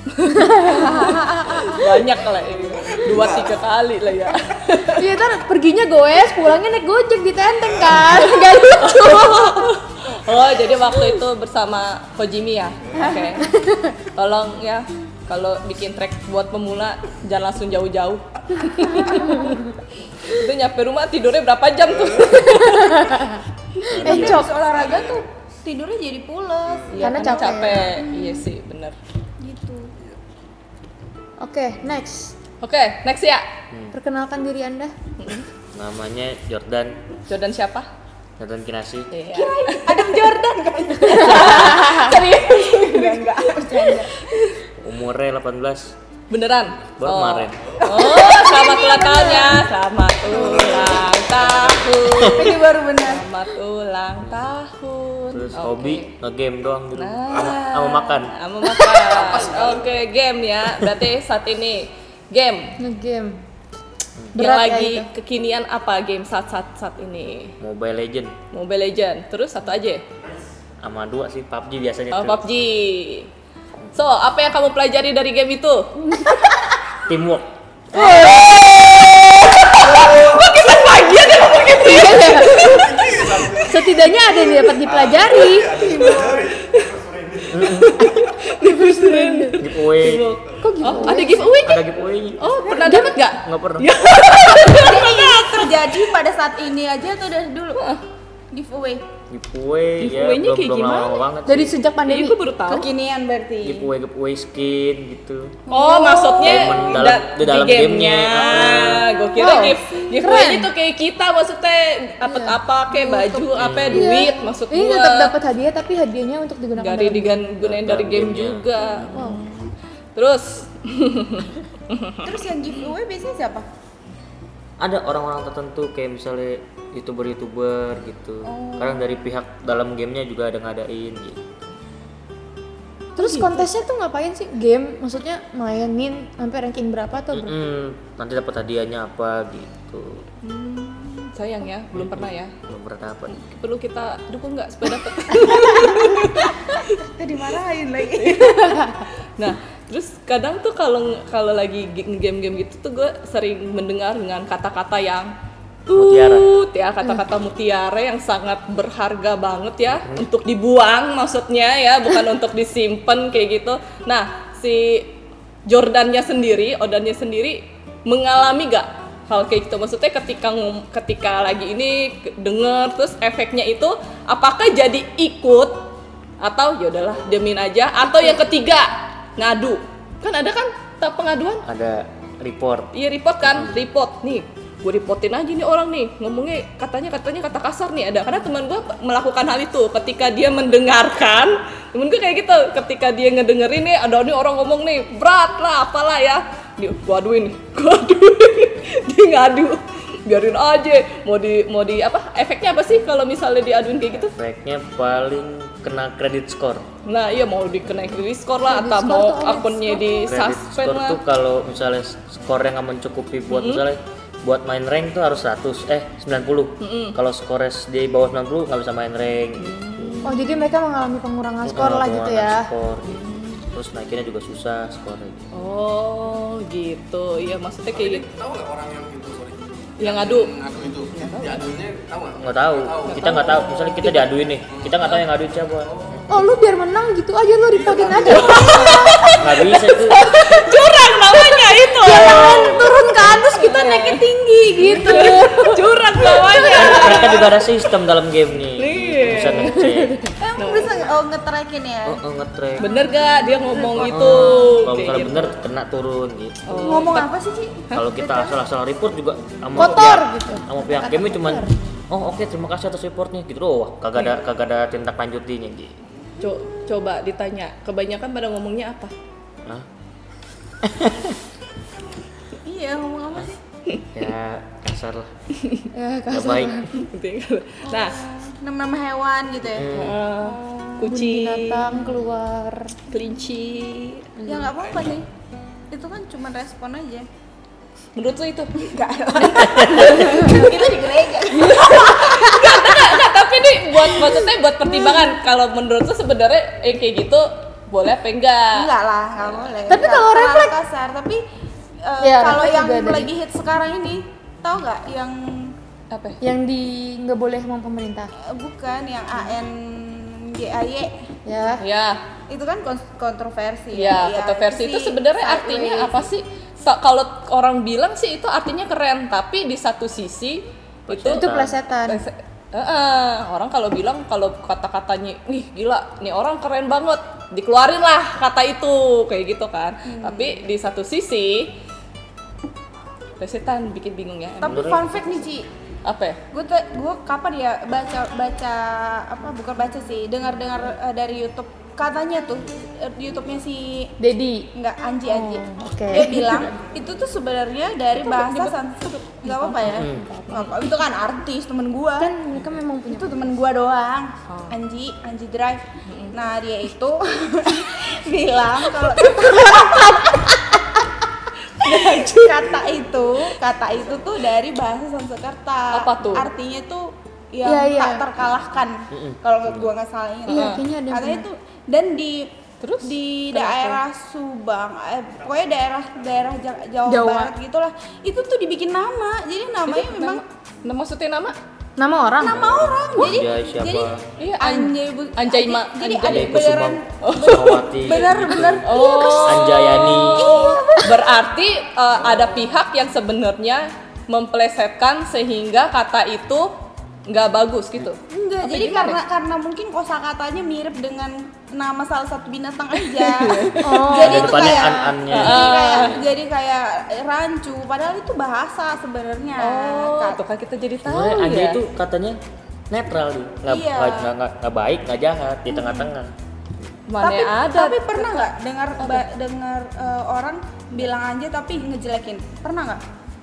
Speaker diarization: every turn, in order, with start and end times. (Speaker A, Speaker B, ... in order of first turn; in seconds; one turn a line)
Speaker A: 0.1-5.0
Speaker B: 0.3-1.8
Speaker C: 0.8-1.6
Speaker D: 1.3-1.8
Speaker D: 2.5-3.6
Speaker B: 4.9-9.7
Speaker D: 7.7-8.4
Speaker A: 8.3-13.5
Speaker C: 13.0-13.5
Speaker B: 13.4-13.9
Speaker A: 14.0-19.6
Speaker B: 18.7-19.6
Speaker A: 20.2-23.3
Speaker D: 22.1-22.4
Speaker B: 22.5-23.4
Speaker E: 23.9-24.5
Speaker C: 23.9-28.4
Speaker B: 24.0-24.5
Speaker D: 24.1-25.2
Speaker A: 26.9-28.9
Speaker B: 26.9-28.1
Speaker C: 29.4-29.9
Speaker B: 31.4-32.3
Speaker A: 32.6-33.5
Speaker B: 33.9-34.9
Speaker A: 35.2-35.5
Speaker E: 35.7-37.0
Speaker A: 37.3-37.9
Speaker E: 38.4-39.1
Speaker A: 39.1-40.3
Speaker C: 39.3-44.2
Speaker A: 41.0-44.6
Speaker E: 44.8-45.9
Speaker A: 46.3-56.1
Speaker E: 47.0-47.6
Speaker C: 47.8-49.6
Speaker C: 50.2-51.0
Speaker D: 50.3-52.1
Speaker E: 52.2-52.5
Speaker C: 52.3-53.2
Speaker E: 55.3-58.3
Speaker A: 56.9-62.8
Speaker D: 57.3-57.6
Speaker D: 59.0-60.0
Speaker B: 62.8-63.4
Speaker B: 64.3-65.1
Speaker A: 64.3-67.5
Speaker E: 67.6-68.3
Speaker A: 68.5-70.0
Speaker E: 70.8-72.4
Speaker A: 72.1-73.3
Speaker A: 73.9-75.9
Speaker E: 77.0-77.5
Speaker A: 77.9-83.7
Speaker D: 79.7-83.8
Speaker B: 81.7-82.8
Speaker B: 83.6-85.8
Speaker D: 84.8-88.1
Speaker C: 85.8-86.4
Speaker A: 86.0-86.9
Speaker E: 87.5-88.1
Speaker A: 87.6-95.8
Speaker B: 88.6-89.6
Speaker E: 89.6-90.3
Speaker B: 90.6-91.5
Speaker E: 90.9-92.6
Speaker B: 92.8-93.2
Speaker E: 93.3-93.9
Speaker C: 94.6-97.8
Speaker A: 97.7-98.0
Speaker C: 98.5-99.1
Speaker E: 99.3-101.8
Speaker A: 100.0-101.2
Speaker B: 101.5-102.3
Speaker A: 102.1-102.9
Speaker C: 102.7-103.9
Speaker E: 103.6-105.6
Speaker C: 105.7-107.1
Speaker A: 105.7-115.3
Speaker E: 106.4-109.1
Speaker C: 109.3-110.6
Speaker B: 109.3-110.6
Speaker B: 112.2-112.5
Speaker C: 112.9-114.3
Speaker E: 113.5-114.0
Speaker B: 113.9-117.4
Speaker A: 116.8-119.4
Speaker E: 117.6-118.8
Speaker B: 119.1-119.4
Speaker A: 120.1-122.4
Speaker C: 122.2-123.7
Speaker E: 124.8-131.6
Speaker C: 128.4-129.1
Speaker B: 133.2-137.5
Speaker A: 133.2-133.7
Speaker E: 137.3-140.2
Speaker A: 140.4-142.5
Speaker E: 141.9-143.3
Speaker A: 143.3-146.9
Speaker C: 145.7-148.7
Speaker A: 148.2-148.7
Speaker A: 149.4-155.3
Speaker A: 155.9-165.1
Speaker E: 155.9-156.5
Speaker A: 165.7-175.9
Speaker A: 176.4-181.7
Speaker E: 181.6-182.9
Speaker A: 182.9-204.3
Speaker E: 183.5-183.8
Speaker E: 204.2-206.8
Speaker A: 207.1-211.2
Speaker B: 208.7-210.3
Speaker E: 210.3-220.2
Speaker A: 213.5-213.8
Speaker A: 216.8-217.2
Speaker A: 219.6-220.4
Speaker B: 220.2-222.7
Speaker E: 221.6-225.5
Speaker A: 223.1-223.6
Speaker A: 225.5-228.2
Speaker D: 227.9-233.7
Speaker A: 230.0-230.6
Speaker A: 231.1-231.6
Speaker E: 232.4-235.9
Speaker A: 233.1-234.3
Speaker D: 234.6-235.0
Speaker D: 235.8-236.5
Speaker B: 236.3-239.2
Speaker D: 237.7-238.9
Speaker A: 238.3-242.9
Speaker E: 239.4-240.3
Speaker C: 242.0-247.6
Speaker A: 243.5-244.2
Speaker B: 244.8-245.7
Speaker A: 244.9-247.4
Speaker E: 246.7-250.2
Speaker A: 248.8-249.9
Speaker B: 249.8-250.1
Speaker C: 250.4-252.2
Speaker A: 250.6-250.9
Speaker E: 252.1-252.8
Speaker C: 252.8-254.9
Speaker A: 252.8-255.5
Speaker E: 254.0-256.6
Speaker A: 256.6-257.3
Speaker C: 256.7-258.5
Speaker E: 257.9-265.9
Speaker B: 259.8-261.7
Speaker A: 266.4-269.1
Speaker E: 270.8-271.4
Speaker C: 272.6-273.6
Speaker E: 274.1-275.3
Speaker A: 275.6-275.9
Speaker B: 275.9-276.9
Speaker E: 276.3-276.8
Speaker A: 276.9-278.2
Speaker C: 277.8-281.1
Speaker E: 279.7-280.2
Speaker A: 279.9-282.1
Speaker B: 281.1-282.9
Speaker A: 283.1-284.3
Speaker B: 284.4-284.7
Speaker C: 284.4-285.3
Speaker D: 284.8-285.1
Speaker C: 285.9-287.3
Speaker A: 288.1-299.7
Speaker C: 288.8-293.3
Speaker C: 298.7-301.4
Speaker B: 299.9-300.7
Speaker C: 302.0-305.8
Speaker B: 302.2-303.3
Speaker A: 306.1-306.4
Speaker B: 306.4-308.3
Speaker C: 308.4-311.2
Speaker B: 311.4-311.8
Speaker A: 311.8-312.2
Speaker C: 312.5-316.2
Speaker A: 313.9-321.5
Speaker E: 321.1-321.8
Speaker B: 321.3-322.2
Speaker A: 322.1-331.7
Speaker C: 330.1-330.6
Speaker A: 333.4-335.0
Speaker C: 334.6-335.7
Speaker E: 334.6-335.5
Speaker A: 336.0-336.4
Speaker C: 336.5-344.1
Speaker B: 344.2-344.7
Speaker C: 344.7-352.3
Speaker B: 345.3-346.7
Speaker A: 348.2-348.7
Speaker B: 349.4-350.8
Speaker E: 349.9-350.3
Speaker B: 352.2-353.4
Speaker C: 353.1-361.1
Speaker A: 354.5-354.7
Speaker A: 356.1-356.3
Speaker A: 358.9-360.4
Speaker A: 361.7-362.8
Speaker C: 361.8-380.4
Speaker A: 365.9-366.5
Speaker B: 367.6-368.2
Speaker E: 369.1-369.9
Speaker B: 370.5-371.4
Speaker A: 370.5-370.8
Speaker A: 372.8-374.0
Speaker B: 377.1-377.5
Speaker A: 379.9-381.6
Speaker B: 382.0-382.6
Speaker C: 382.4-391.2
Speaker E: 382.5-384.2
Speaker A: 384.4-387.8
Speaker E: 386.2-390.7
Speaker A: 388.8-396.7
Speaker A: 397.3-398.2
Speaker B: 398.3-399.2
Speaker C: 398.6-410.4
Speaker A: 403.1-406.2
Speaker B: 403.8-404.6
Speaker E: 404.1-406.3
Speaker A: 409.6-411.8
Speaker E: 411.0-412.4
Speaker E: 412.9-416.3
Speaker C: 413.7-414.3
Speaker C: 415.7-416.1
Speaker A: 417.1-419.2
Speaker C: 417.2-423.0